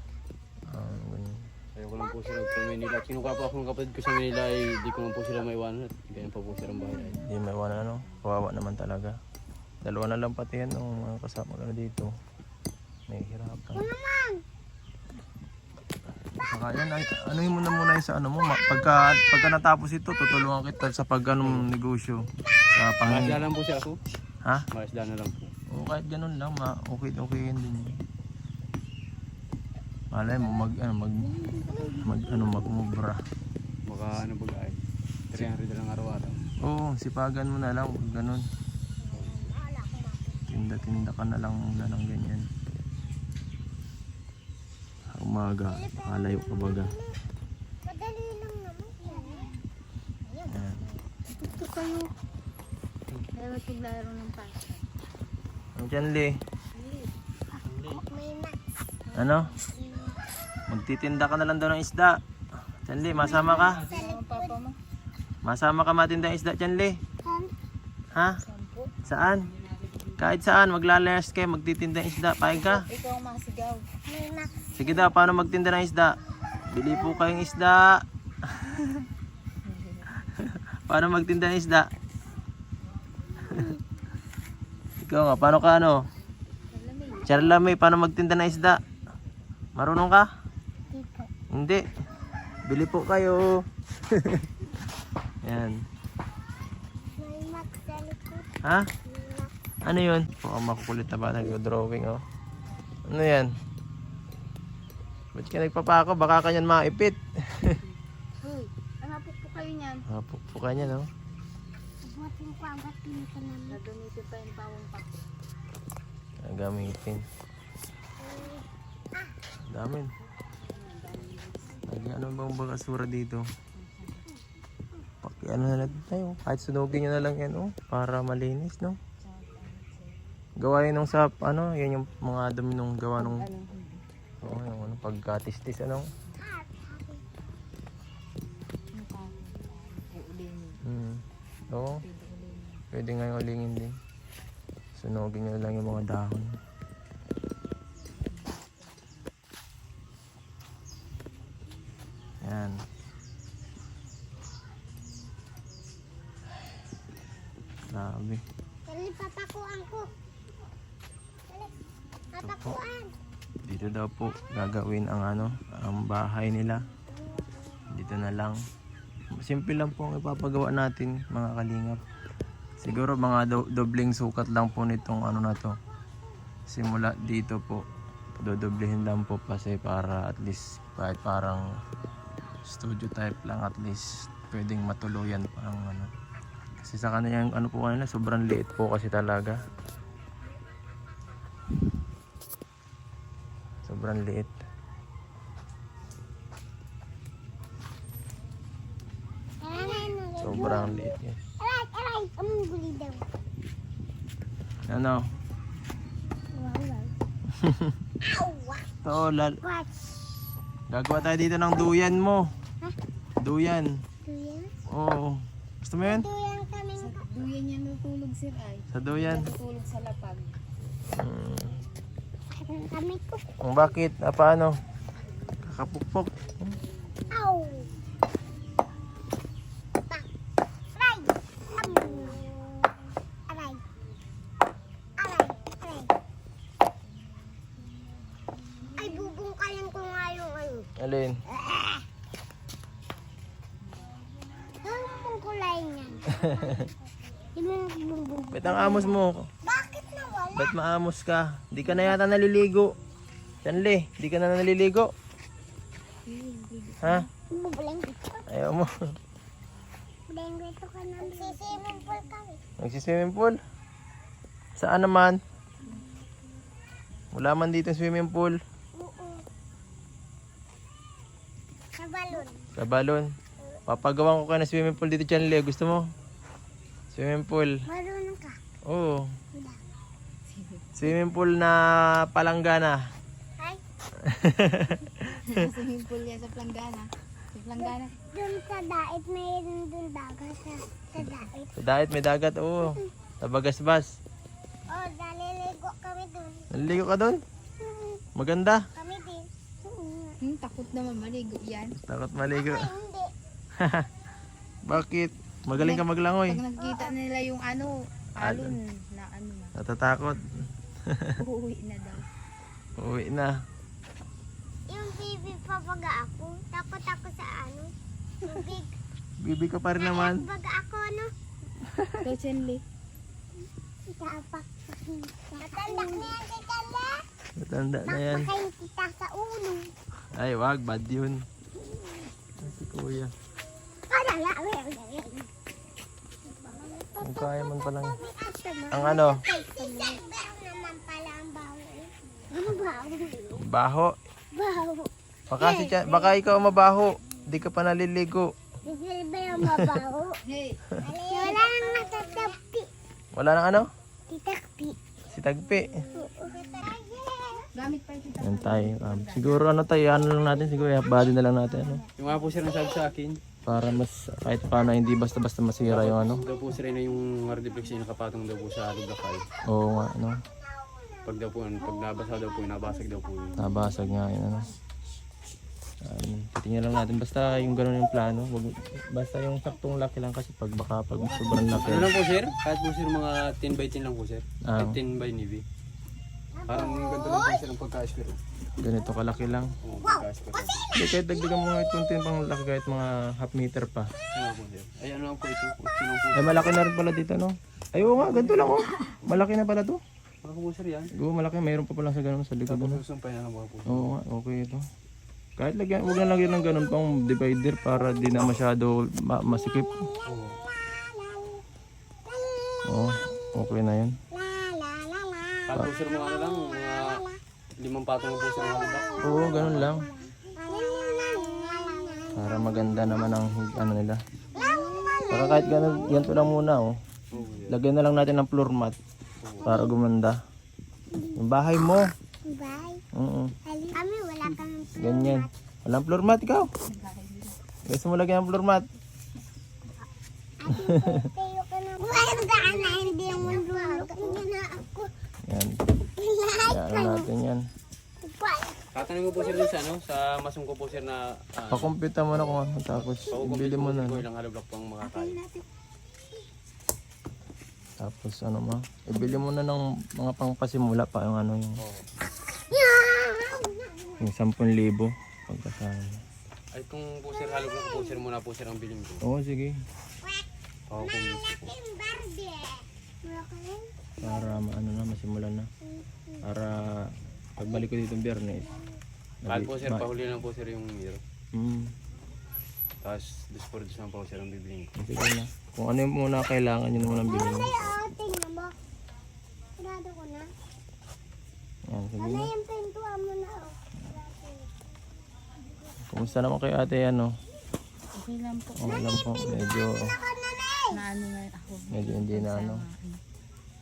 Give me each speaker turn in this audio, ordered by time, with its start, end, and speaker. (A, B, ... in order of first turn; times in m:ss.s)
0:00.7-0:01.5 A
0:01.8-0:07.2 B
0:07.1-0:09.2 A
0:09.8-0:12.1 A
0:13.1-0:13.9 A
0:13.7-0:14.4 C
0:16.4-0:23.4 A
0:21.4-0:21.7 B
0:23.1-0:24.0 B
0:24.7-0:25.5 B
0:25.7-0:28.0 A
0:30.1-0:33.2 A
0:31.6-0:32.5 C
0:33.9-0:36.4 B
0:36.6-0:38.4 A
0:39.0-0:40.4 C
0:40.5-0:42.5 A
0:45.1-0:46.9 A
0:45.7-0:47.2 C
0:47.8-0:49.5 C
0:49.1-0:49.5 D
0:50.5-0:50.8 A
0:51.3-0:52.1 D
0:53.3-0:54.8 D
0:55.8-0:56.3 A
0:56.8-0:57.1 D
0:57.6-0:58.0 B
0:57.8-0:58.6 C
0:59.2-0:59.6 A
0:59.7-1:00.2 C
1:00.7-1:02.2 A
1:02.9-1:03.8 A
1:03.2-1:04.8 D
1:03.2-1:04.6 C
1:05.4-1:07.0 A
1:07.2-1:07.5 C
1:08.2-1:08.4 A
1:08.4-1:08.9 D
1:09.0-1:09.5 A
1:10.2-1:12.9 A
1:12.4-1:13.9 D
1:14.1-1:15.2 C
1:14.8-1:18.0 A
1:16.9-1:17.3 C
1:19.6-1:20.4 D
1:20.4-1:21.9 A
1:23.5-1:23.8 C
1:25.0-1:26.0 A
1:26.7-1:27.6 D
1:27.2-1:28.8 A
1:29.8-1:30.3 A
1:30.9-1:31.3 C
1:31.5-1:31.8 A
1:32.7-1:33.6 A
1:35.4-1:35.8 A
1:37.2-1:38.5 C
1:38.6-1:38.9 A
1:39.0-1:39.5 C
1:39.8-1:42.2 A
1:43.1-1:43.5 A
1:45.4-1:47.8 A
1:48.4-1:50.0 D
1:50.1-1:51.1 A
1:52.0-1:53.8 C
1:53.7-1:55.3 D
1:56.4-1:57.2 A
1:58.2-1:59.3 C
1:59.7-2:00.1 A
2:00.6-2:02.1 D
2:01.9-2:03.4 A
2:03.8-2:04.3 D
2:05.2-2:09.0 A
2:09.2-2:10.2 D
2:10.6-2:13.5 A
2:13.2-2:14.0 D
2:14.4-2:16.1 A
2:16.4-2:17.2 C
2:18.9-2:20.8 D
2:20.8-2:22.0 A
2:21.8-2:22.8 D
2:22.9-2:24.0 A
2:25.0-2:26.5 A
2:28.3-2:29.0 D
2:32.4-2:32.8 A
2:37.9-2:38.4 A
2:38.9-2:40.1 C
2:42.3-2:43.2 C
2:42.4-2:42.8 A
2:43.7-2:46.8 A
2:47.9-2:48.6 A
2:49.4-2:52.0 A
2:52.8-2:55.8 A
2:56.7-2:57.8 A
2:58.4-3:01.6 A
3:02.6-3:06.1 A
3:06.8-3:09.6 A
3:13.8-3:14.5 A
3:19.6-3:23.3 C
3:20.4-3:21.4 A
3:24.9-3:25.2 A
3:26.5-3:27.1 C
3:27.5-3:28.0 A
3:28.2-3:28.9 C
3:29.0-3:29.6 A
3:29.6-3:30.1 C
3:30.9-3:32.5 A
3:33.4-3:34.0 A
3:34.2-3:34.7 C
3:34.9-3:36.3 A
3:36.0-3:37.4 C
3:37.0-3:40.6 D
3:38.9-3:39.5 A
3:41.1-3:41.8 A
3:42.6-3:43.4 C
3:43.6-3:44.7 A
3:45.6-3:46.8 A
3:47.3-3:47.9 C
3:50.9-3:52.6 C
3:53.5-3:53.8 C
3:55.2-3:56.1 C
3:58.9-4:00.9 C
4:01.0-4:01.4 A
4:01.5-4:02.0 C
4:04.8-4:07.0 C
4:06.4-4:06.8 A
4:07.6-4:10.7 C
4:08.5-4:09.5 A
4:10.5-4:12.9 A
4:13.6-4:15.1 A
4:16.3-4:17.3 D
4:17.0-4:17.3 A
4:17.5-4:18.5 C
4:18.5-4:18.9 A
4:20.3-4:22.6 C
4:21.3-4:22.2 D
4:22.8-4:23.6 A
4:24.8-4:25.4 A
4:27.3-4:28.6 A
4:29.0-4:29.5 C
4:32.0-4:32.7 C
4:32.8-4:33.3 A
4:33.9-4:36.1 A
4:37.1-4:37.8 A
4:37.9-4:38.6 C
4:38.9-4:39.4 A
4:39.5-4:39.8 C
4:40.5-4:40.8 D
4:41.0-4:43.0 A
4:44.2-4:45.7 A
4:45.3-4:48.2 D
4:47.8-4:51.7 C
4:51.8-4:54.2 A
4:54.9-4:56.7 C
4:56.7-4:57.4 A
4:57.8-4:58.2 C
4:58.4-4:58.9 A
4:59.0-5:00.4 C
5:00.4-5:02.0 D
5:02.0-5:02.9 A
5:02.5-5:03.3 C
5:03.8-5:04.1 A
5:04.9-5:06.6 A
5:05.7-5:09.8 D
5:06.8-5:07.1 C
5:08.4-5:08.8 A
5:09.8-5:10.4 A
5:11.1-5:11.4 A
5:11.4-5:12.3 D
5:13.0-5:13.5 A
5:14.9-5:18.9 C
5:19.4-5:20.5 A
5:19.9-5:21.3 C
5:21.9-5:22.3 A
5:22.2-5:22.8 D
5:24.1-5:27.2 C
5:27.6-5:28.5 A
5:28.0-5:29.9 C
5:30.3-5:31.5 A
5:32.6-5:33.3 A
5:34.1-5:35.5 C
5:36.5-5:43.6 C
5:37.2-5:38.2 A
5:38.9-5:39.4 A
5:43.6-5:44.1 A
5:44.5-5:46.4 C
5:45.5-5:48.5 A
5:48.9-5:50.4 C
5:49.6-5:49.9 A
5:50.5-5:50.8 D
5:51.0-5:52.9 C
5:51.4-5:52.2 D
5:53.3-5:53.9 A
5:54.3-5:55.0 C
5:55.3-5:56.2 A
5:56.1-5:57.7 C
5:57.8-5:59.7 D
5:58.4-6:02.0 A
6:02.2-6:03.4 B
6:03.7-6:06.4 A
6:05.8-6:09.5 B
6:06.4-6:06.7 C
6:09.7-6:10.4 A
6:10.7-6:11.3 C
6:11.2-6:13.6 B
6:12.0-6:14.0 C
6:13.6-6:14.7 A
6:16.0-6:22.1 A
6:21.6-6:25.6 B
6:24.6-6:25.0 A
6:26.6-6:27.5 C
6:26.7-6:28.4 B
6:28.8-6:29.7 A
6:29.8-6:30.9 B
6:30.9-6:34.1 A
6:34.4-6:36.8 B
6:36.4-6:40.0 A
6:38.3-6:38.6 D
6:40.4-6:41.1 B
6:41.2-6:43.0 A
6:42.7-6:44.2 B
6:43.9-6:44.8 A
6:45.6-6:50.1 A
6:49.8-6:51.6 C
6:50.2-6:50.6 B
6:52.3-6:53.4 C
6:52.9-6:54.2 A
6:54.3-6:55.8 C
6:55.7-6:57.2 B
6:57.8-7:00.1 B
6:58.8-7:03.2 C
6:59.2-7:00.1 A
7:02.4-7:04.2 A
7:04.5-7:06.6 C
7:05.3-7:06.9 A
7:07.3-7:07.8 B
7:07.7-7:09.0 A
7:09.4-7:09.7 B
7:09.6-7:10.0 C
7:09.6-7:10.4 A
7:11.1-7:11.4 C
7:11.4-7:12.0 A
7:12.4-7:13.0 C
7:13.1-7:13.5 A
7:13.6-7:15.5 C
7:15.0-7:16.7 A
7:16.9-7:17.6 D
7:17.8-7:18.8 A
7:20.6-7:25.1 C
7:20.7-7:21.3 A
7:23.3-7:23.6 A
7:25.5-7:25.8 A
7:26.2-7:27.3 C
7:26.6-7:27.6 A
7:28.2-7:28.9 C
7:28.9-7:31.9 B
7:29.4-7:29.7 C
7:31.7-7:34.2 A
7:33.1-7:35.4 B
7:35.0-7:35.6 D
7:38.0-7:41.8 A
7:41.8-7:42.1 B
7:42.5-7:44.2 C
7:44.2-7:46.2 A
7:46.7-7:49.2 B
7:49.2-7:49.8 A
7:50.9-7:51.8 B
7:51.0-7:54.6 C
7:54.2-7:55.7 A
7:55.9-7:56.4 C
7:56.4-7:58.7 A
7:59.4-8:00.2 A
7:59.5-8:01.2 B
8:01.5-8:01.9 A
8:03.0-8:05.0 B
8:05.0-8:07.8 A
8:07.2-8:08.7 C
8:09.8-8:10.5 C
8:11.9-8:12.5 A
8:12.2-8:14.7 C
8:16.1-8:17.3 A
8:18.1-8:19.8 D
8:18.8-8:20.0 A
8:20.1-8:21.0 C
8:20.9-8:23.2 D
8:21.9-8:22.8 A